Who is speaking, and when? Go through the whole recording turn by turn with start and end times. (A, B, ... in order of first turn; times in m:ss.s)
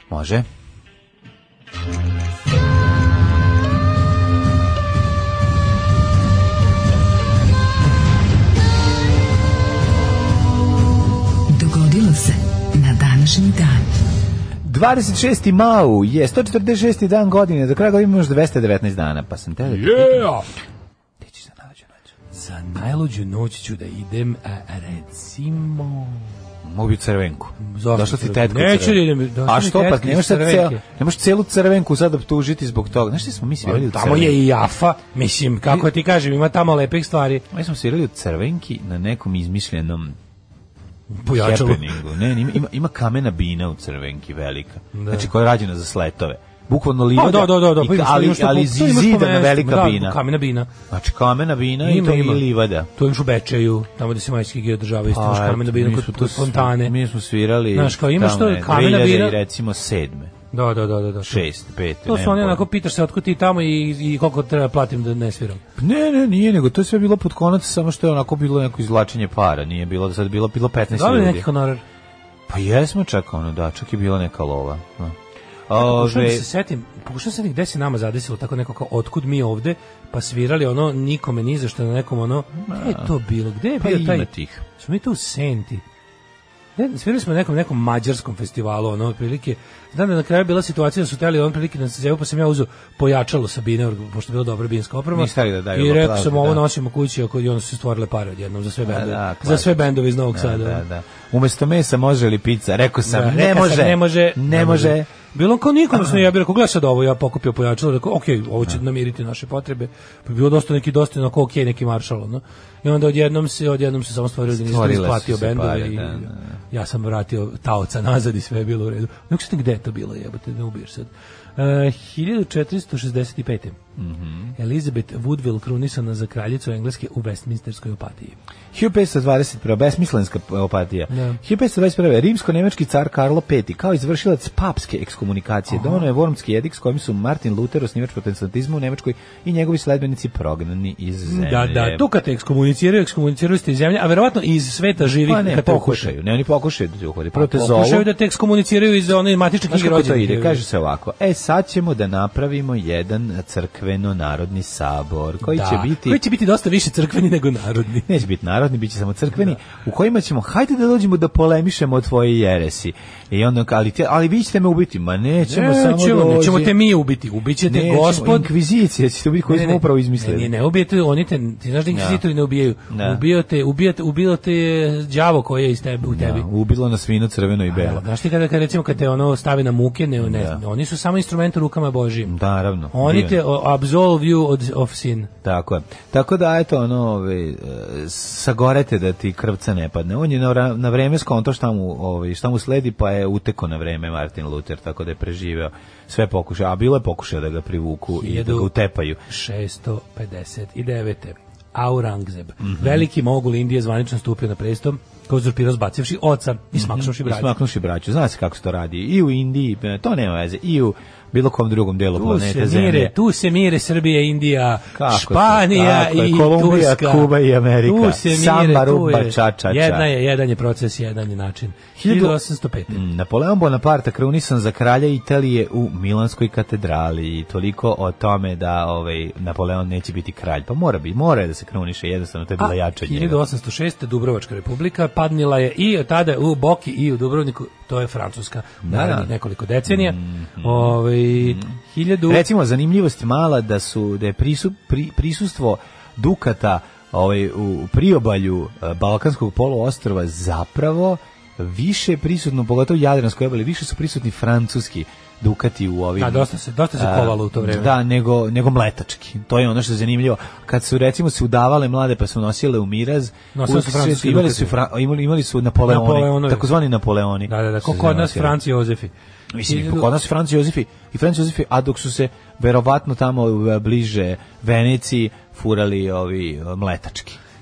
0:00.1-0:00.5 A
0:11.5-0:13.8 B
0:14.6-0:20.4 A
0:19.9-0:20.4 C
0:21.2-0:22.0 A
0:22.3-0:26.3 C
0:26.6-0:34.4 A
0:27.6-0:30.8 C
0:33.6-0:37.4 C
0:37.5-0:40.2 A
0:41.1-0:41.9 C
0:41.3-0:50.2 A
0:44.9-0:45.3 C
0:47.2-0:50.7 C
0:50.9-0:52.9 A
0:51.8-0:57.0 C
0:55.0-1:00.3 A
0:57.7-0:59.4 C
1:00.5-1:01.4 C
1:01.2-1:02.6 A
1:02.0-1:05.6 C
1:05.8-1:11.5 A
1:10.9-1:11.8 C
1:12.5-1:16.5 A
1:15.8-1:25.8 C
1:22.6-1:23.1 A
1:23.8-1:24.6 A
1:26.8-1:40.8 C
1:35.1-1:36.6 A
1:38.9-1:45.1 A
1:43.1-2:03.8 C
1:45.9-1:46.2 A
1:54.5-1:56.6 A
2:04.0-2:04.6 A
2:04.6-2:08.4 C
2:08.7-2:22.0 A
2:11.1-2:11.4 C
2:15.7-2:16.1 C
2:21.2-2:26.1 C
2:25.0-2:28.1 A
2:27.4-2:30.6 C
2:29.7-2:36.2 A
2:35.4-2:38.1 C
2:38.1-2:46.8 A
2:45.4-2:48.5 C
2:47.7-2:50.5 A
2:49.5-2:56.5 C
2:51.9-2:52.2 A
2:52.9-2:53.2 A
2:56.0-2:58.0 A
2:57.7-3:02.4 C
3:00.2-3:00.6 A
3:02.3-3:03.4 A
3:02.9-3:05.3 C
3:05.4-3:19.2 A
3:18.2-3:18.7 C
3:19.3-3:27.5 C
3:22.6-3:23.1 A
3:26.7-3:33.1 A
3:32.2-3:43.0 C
3:35.0-3:40.1 A
3:42.0-3:42.4 A
3:42.9-3:53.4 A
3:52.6-4:02.5 C
3:58.8-3:59.3 A
3:59.9-4:01.7 A
4:02.3-4:28.6 A
4:16.2-4:17.9 C
4:23.6-4:24.8 C
4:25.8-4:26.7 C
4:27.5-4:29.1 C
4:29.5-4:37.4 A
4:29.7-4:30.1 C